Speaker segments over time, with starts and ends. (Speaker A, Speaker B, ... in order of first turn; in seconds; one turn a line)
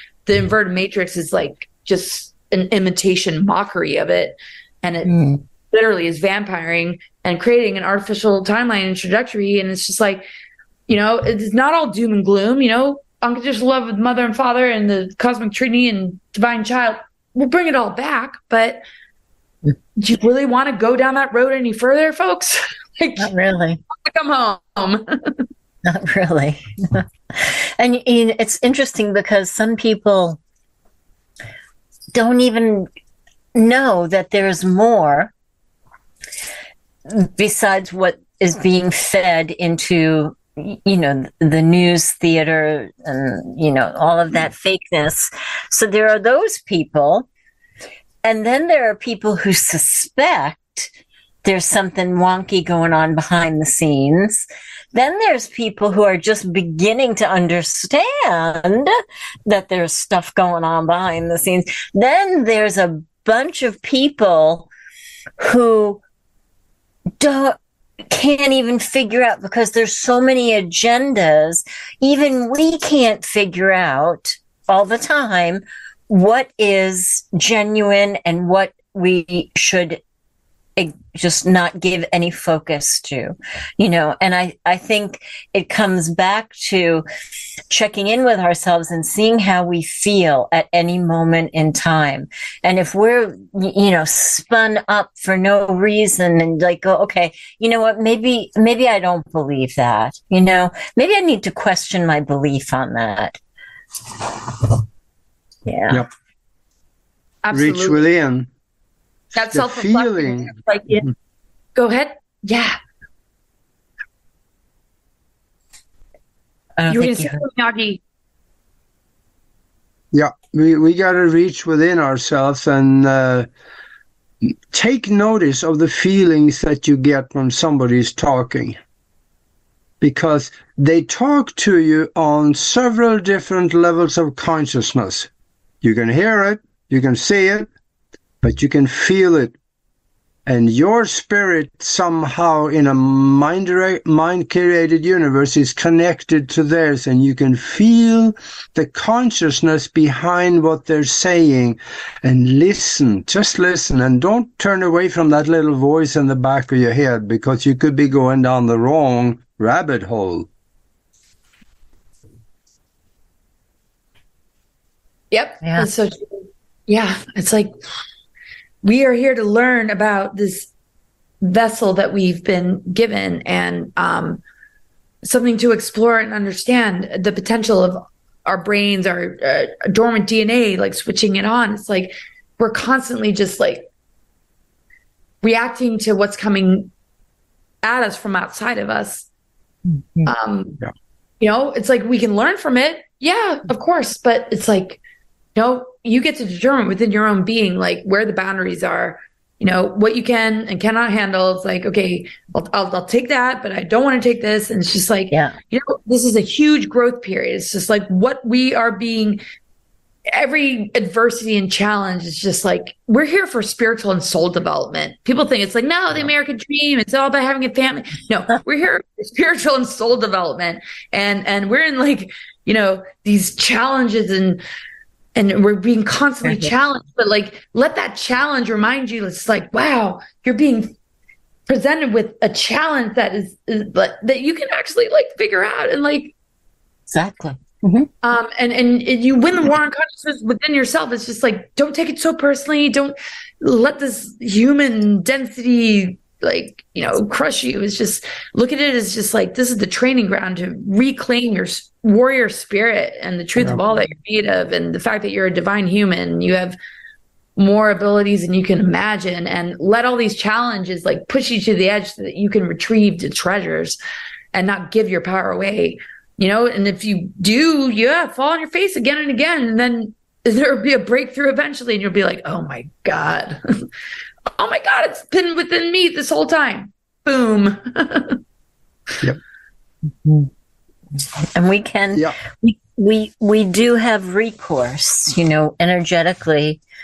Speaker A: 0.2-5.1
Speaker B: 5.0-5.4
Speaker A: 5.7-10.2
Speaker A: 10.9-18.8
Speaker A: 20.0-23.3
Speaker B: 23.2-23.8
Speaker A: 24.0-25.4
Speaker B: 25.8-30.4
Speaker B: 32.1-32.9
Speaker B: 33.5-35.3
Speaker B: 37.1-47.2
Speaker B: 48.2-50.9
Speaker B: 51.4-58.9
Speaker B: 59.5-64.7
Speaker B: 65.4-66.0
Speaker B: 67.2-67.6
Speaker B: 68.1-80.0
Speaker B: 80.8-87.0
Speaker B: 87.7-103.4
Speaker B: 104.2-104.8
Speaker B: 105.7-106.0
Speaker A: 107.4-108.0
Speaker C: 107.5-108.5
Speaker A: 109.3-111.1
Speaker C: 109.5-110.5
Speaker A: 111.7-112.8
Speaker B: 116.8-117.4
Speaker A: 116.9-118.0
Speaker C: 120.1-123.5
Speaker C: 124.4-128.8
Speaker C: 130.0-135.3
Speaker C: 135.8-137.7
Speaker C: 138.4-139.5
Speaker C: 140.4-160.5
Speaker A: 165.3-167.7
Speaker B: 165.6-165.9
Speaker A: 168.8-170.7
Speaker A: 171.4-174.4
Speaker A: 175.2-183.8
Speaker A: 185.4-186.9
Speaker A: 187.8-189.3
Speaker B: 189.9-190.3
Speaker A: 190.2-190.8
Speaker A: 191.4-195.0
Speaker A: 195.6-209.4
Speaker B: 205.3-205.6
Speaker A: 210.3-224.6
Speaker A: 225.3-230.9
Speaker A: 231.7-236.3
Speaker B: 237.1-238.1
Speaker A: 238.2-256.8
Speaker A: 257.6-264.0
Speaker A: 264.5-273.9
Speaker A: 274.6-278.4
Speaker B: 280.2-280.5
Speaker B: 281.1-286.8